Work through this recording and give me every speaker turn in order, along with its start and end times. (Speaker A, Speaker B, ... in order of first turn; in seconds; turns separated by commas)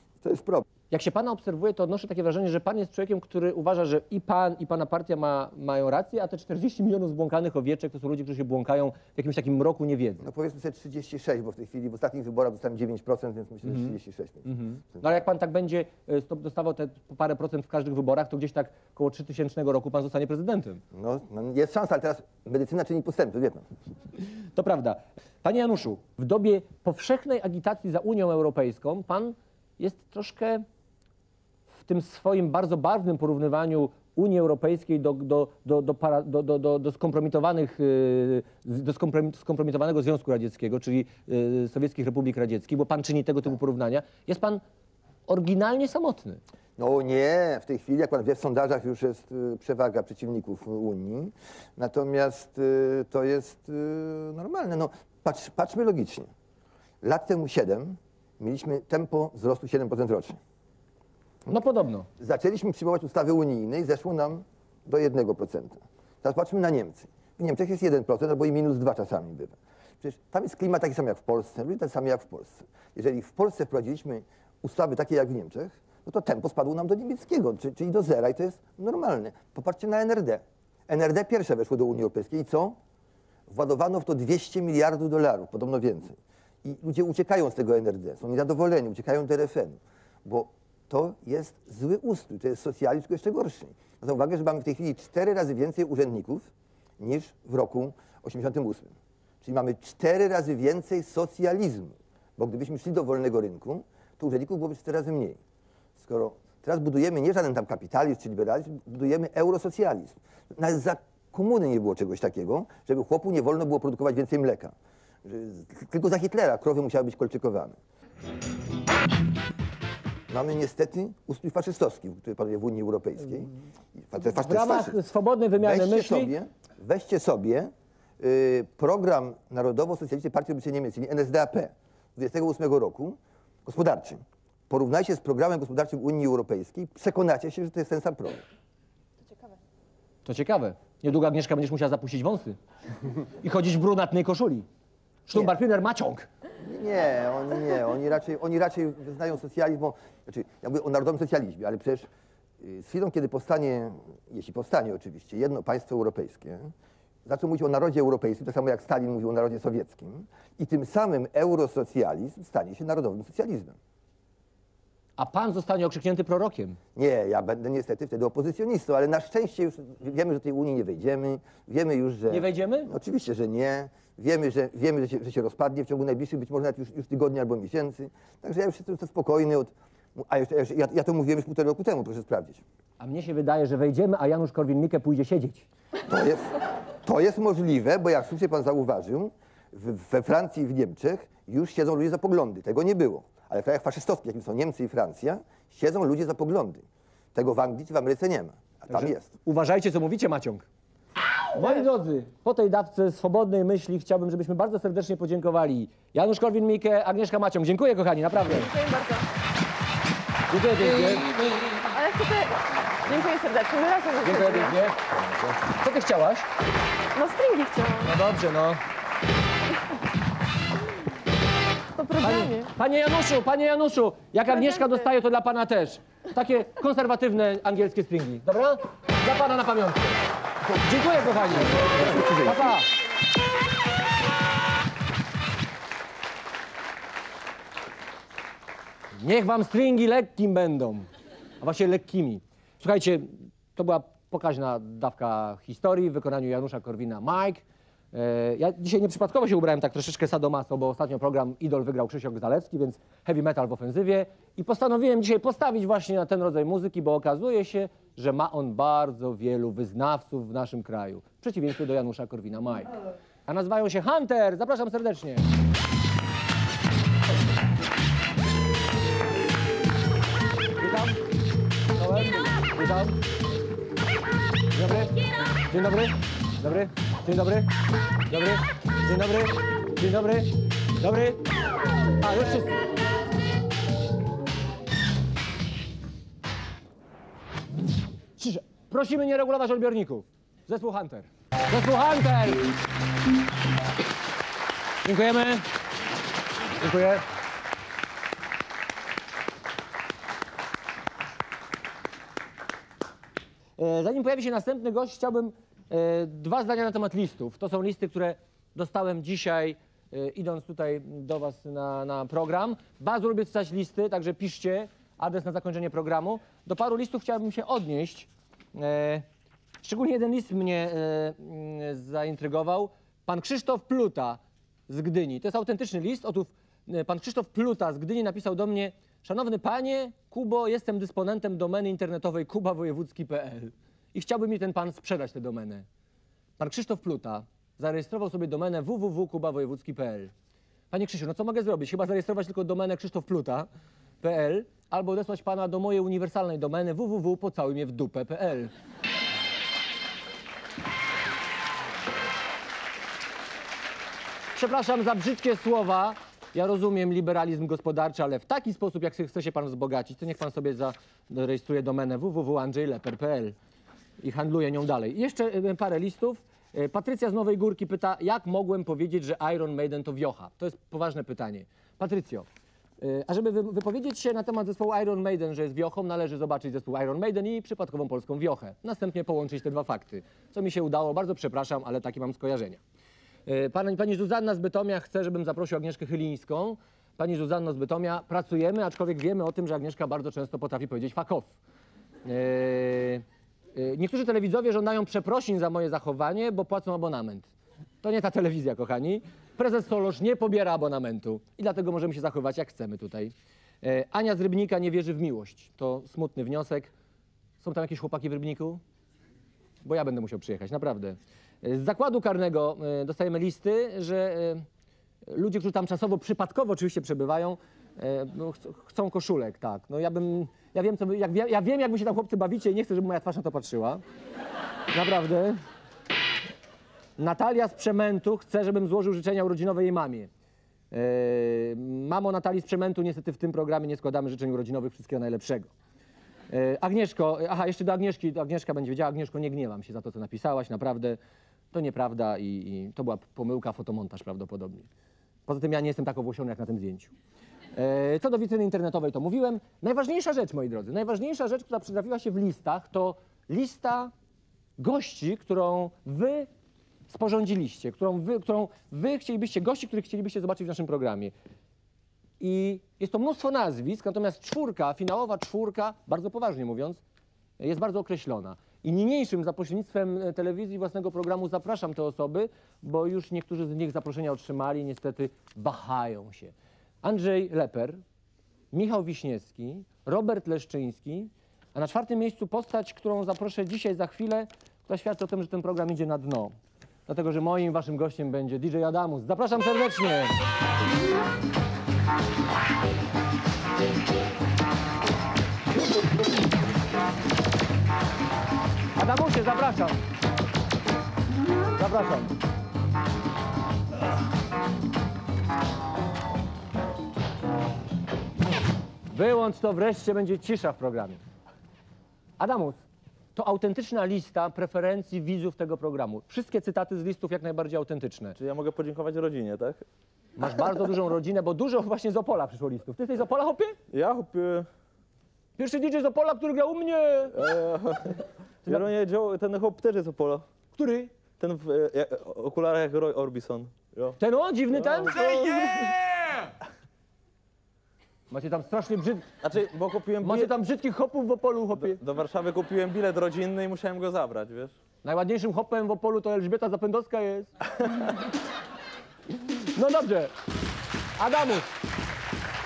Speaker A: 0.2-0.7, Speaker B: 0.9-10.3, Speaker A: 10.2-15.0, Speaker B: 13.7-13.9, Speaker B: 14.5-20.8, Speaker A: 20.9-23.7, Speaker B: 24.5-30.6, Speaker B: 31.8-44.6, Speaker B: 45.3-46.4, Speaker A: 46.8-56.3, Speaker A: 57.0-60.4, Speaker B: 61.5-62.1, Speaker A: 62.2-82.8, Speaker A: 83.5-96.5, Speaker A: 97.0-105.4, Speaker A: 106.0-114.7, Speaker A: 115.2-117.8, Speaker A: 120.3-125.0, Speaker B: 124.2-126.3, Speaker A: 125.6-138.5, Speaker C: 139.3-139.5, Speaker B: 140.2-142.6, Speaker B: 143.4-144.7, Speaker B: 145.3-146.3, Speaker A: 146.6-152.1, Speaker A: 152.6-156.7, Speaker A: 157.3-163.8, Speaker B: 165.2-166.8, Speaker A: 167.0-182.6, Speaker B: 172.3-172.9, Speaker B: 183.0-185.7, Speaker A: 186.1-199.3, Speaker B: 198.9-200.7, Speaker B: 201.5-208.7, Speaker C: 208.5-209.3, Speaker B: 210.5-211.3, Speaker C: 211.9-214.8, Speaker B: 214.2-216.5, Speaker C: 217.2-218.1, Speaker B: 218.0-218.8, Speaker C: 222.0-222.7, Speaker B: 222.2-232.9, Speaker C: 224.5-225.1, Speaker A: 231.5-232.8, Speaker B: 239.2-241.1, Speaker B: 241.6-262.9, Speaker B: 263.5-265.5, Speaker B: 270.8-271.2, Speaker B: 271.9-273.2, Speaker B: 274.7-275.1, Speaker B: 275.7-277.7, Speaker B: 278.3-281.4, Speaker B: 282.2-282.8, Speaker B: 288.4-292.7, Speaker B: 295.1-295.7, Speaker B: 296.8-297.2, Speaker B: 303.8-319.3, Speaker B: 319.8-335.9, Speaker B: 336.6-340.3, Speaker B: 340.9-343.7, Speaker B: 344.2-348.7, Speaker B: 354.6-363.6, Speaker B: 364.2-372.5, Speaker B: 373.0-382.8, Speaker B: 383.5-391.5, Speaker B: 392.2-393.2, Speaker B: 393.8-397.5, Speaker B: 398.0-406.9, Speaker B: 407.6-408.8, Speaker B: 409.8-414.7, Speaker B: 415.3-424.0, Speaker B: 424.9-425.6, Speaker B: 427.2-430.3, Speaker B: 430.9-435.7, Speaker B: 436.5-441.2, Speaker B: 441.7-444.9, Speaker B: 445.5-447.1, Speaker B: 447.8-454.1, Speaker B: 454.8-456.5, Speaker B: 457.1-461.3, Speaker B: 462.4-467.0, Speaker B: 467.6-478.0, Speaker B: 478.7-486.6, Speaker B: 487.1-490.4, Speaker B: 499.0-500.0, Speaker B: 501.8-502.3, Speaker B: 509.1-511.2, Speaker B: 512.4-512.8, Speaker B: 513.4-518.4, Speaker D: 518.4-519.9, Speaker B: 520.4-523.8, Speaker D: 523.9-524.7, Speaker B: 525.6-527.5, Speaker D: 527.3-530.5, Speaker B: 530.8-531.1, Speaker D: 531.4-534.2, Speaker B: 534.2-535.9, Speaker D: 534.8-536.5, Speaker B: 538.3-539.3, Speaker D: 539.4-540.5, Speaker B: 540.2-542.0, Speaker D: 541.8-544.8, Speaker B: 545.0-547.5, Speaker B: 549.5-550.3, Speaker B: 551.2-551.7